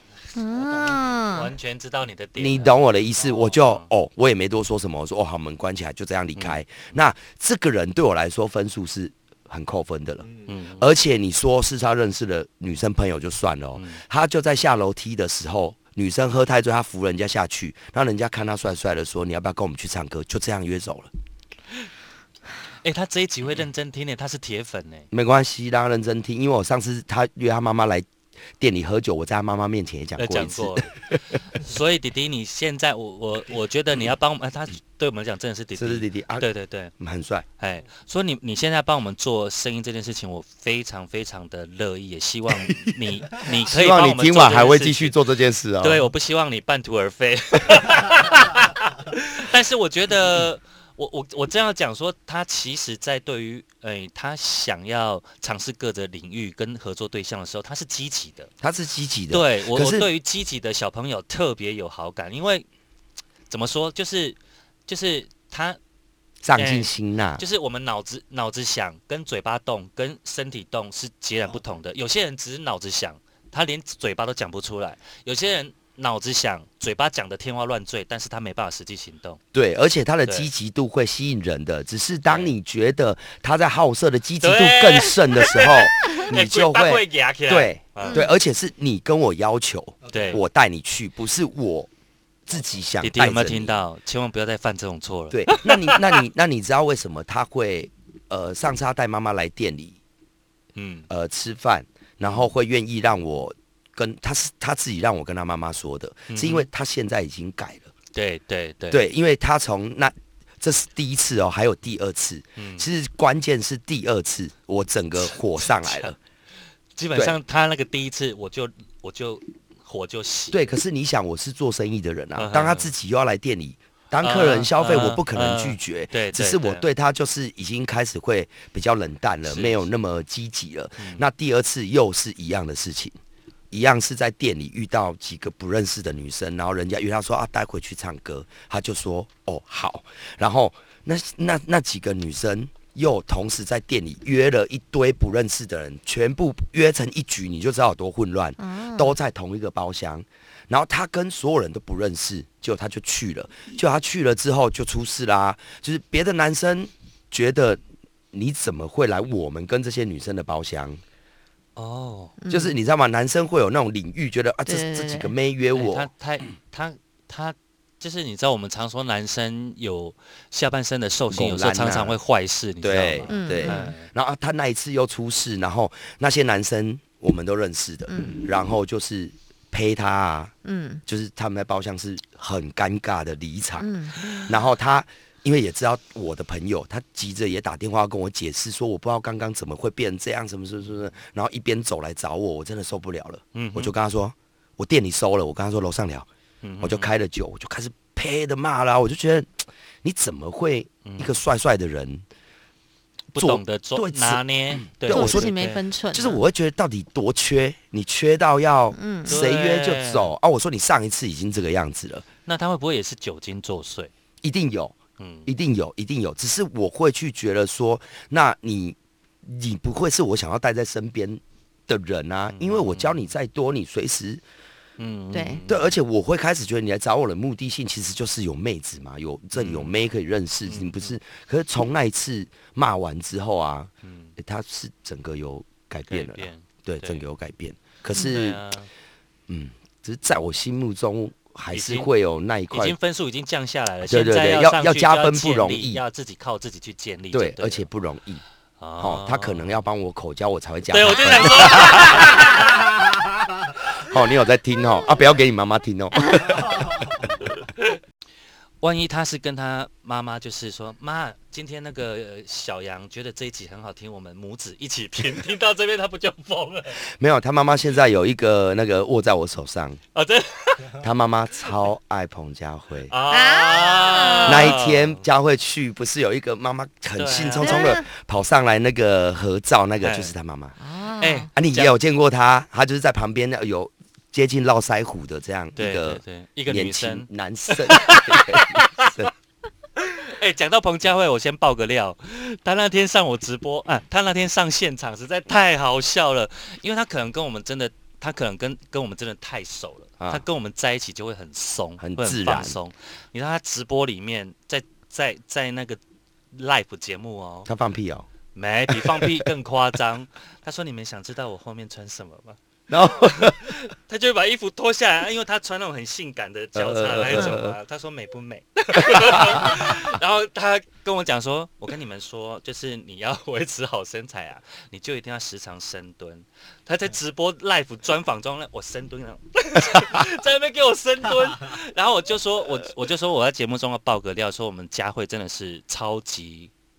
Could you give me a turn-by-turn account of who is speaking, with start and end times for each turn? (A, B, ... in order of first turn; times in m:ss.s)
0:00.3-0:01.5 A
0:00.8-0:02.8 B
0:02.4-0:21.1 C
0:03.4-0:03.9 B
0:10.4-0:10.8 B
0:22.8-0:25.0 B
0:25.1-0:28.1 C
0:28.6-0:30.9 C
0:30.2-0:36.9 B
0:35.8-0:36.5 C
0:37.0-0:37.4 C
0:37.6-0:45.2 B
0:42.6-0:43.0 C
0:43.5-0:46.1 C
0:45.8-0:58.5 B
0:58.6-1:00.1 C
0:59.3-1:02.6 B
1:03.5-1:05.8 B
1:06.4-1:07.4 C
1:06.5-1:19.4 B
1:19.5-1:31.9 C
1:22.3-1:22.5 B
1:24.4-1:28.3 B
1:28.0-1:28.3 A
1:30.1-1:30.4 B
1:32.4-1:33.7 C
1:33.0-1:36.2 B
1:35.3-1:40.0 C
1:40.8-1:41.1 B
1:41.1-1:47.9 C
1:46.3-1:46.7 B
1:48.1-1:49.0 B
1:48.9-1:56.2 C
1:52.6-1:52.9 B
1:55.6-1:56.1 B
1:57.0-2:00.7 B
2:00.5-2:13.2 C
2:02.4-2:02.9 B
2:04.2-2:06.8 B
2:09.4-2:09.8 B
2:13.7-2:37.8 C
2:28.6-2:29.2 A
2:38.3-2:41.0 C
2:41.8-2:42.3 B
2:42.4-2:42.7 A
2:42.5-2:46.1 C
2:44.6-2:45.3 A
2:45.7-2:54.1 B
2:51.3-2:52.2 C
2:52.8-3:00.5 C
2:53.3-2:53.9 A
2:58.1-2:58.4 A
3:00.6-3:01.0 A
3:01.0-3:16.2 C
3:03.8-3:04.4 A
3:13.5-3:13.9 B
3:16.6-3:17.1 B
3:16.8-3:19.5 C
3:20.0-3:22.2 C
3:21.0-3:21.4 B
3:23.3-3:25.5 C
3:23.4-3:26.4 B
3:25.1-3:26.3 A
3:26.1-3:32.2 C
3:28.9-3:29.3 A
3:29.2-3:30.3 B
3:32.4-3:34.1 B
3:34.4-3:44.4 C
3:35.2-3:35.5 B
3:42.5-3:43.2 B
3:45.0-3:45.9 B
3:45.3-3:45.6 A
3:45.7-3:58.6 C
3:49.5-3:49.9 B
3:50.7-3:51.1 B
3:54.0-3:54.3 B
3:56.1-3:57.2 B
3:58.1-3:58.9 B
3:59.5-4:03.0 C
4:01.7-4:02.1 B
4:02.7-4:07.9 B
4:04.0-4:06.0 C
4:07.3-4:08.4 C
4:08.8-4:09.7 B
4:09.0-4:12.6 C
4:10.9-4:12.9 B
4:13.9-4:16.9 C
4:17.6-4:18.0 B
4:18.8-4:27.0 B
4:27.0-4:30.0 C
4:30.1-4:31.0 B
4:31.0-4:33.1 C
4:33.1-4:35.2 B
4:33.3-4:34.7 A
4:34.5-4:40.7 C
4:37.1-4:37.9 B
4:37.6-4:38.0 A
4:40.0-4:40.3 B
4:40.8-4:41.5 A
4:41.2-4:41.9 B
4:41.5-4:49.3 C
4:45.8-4:49.2 B
4:50.0-5:06.0 B
5:00.2-5:00.4 C
5:02.0-5:02.8 C
5:06.5-5:07.7 B
5:07.6-5:08.3 C
5:08.6-5:12.6 B
5:08.9-5:09.4 C
5:12.9-5:13.7 C
5:13.2-5:36.7 B
5:16.7-5:17.8 C
5:19.0-5:19.8 C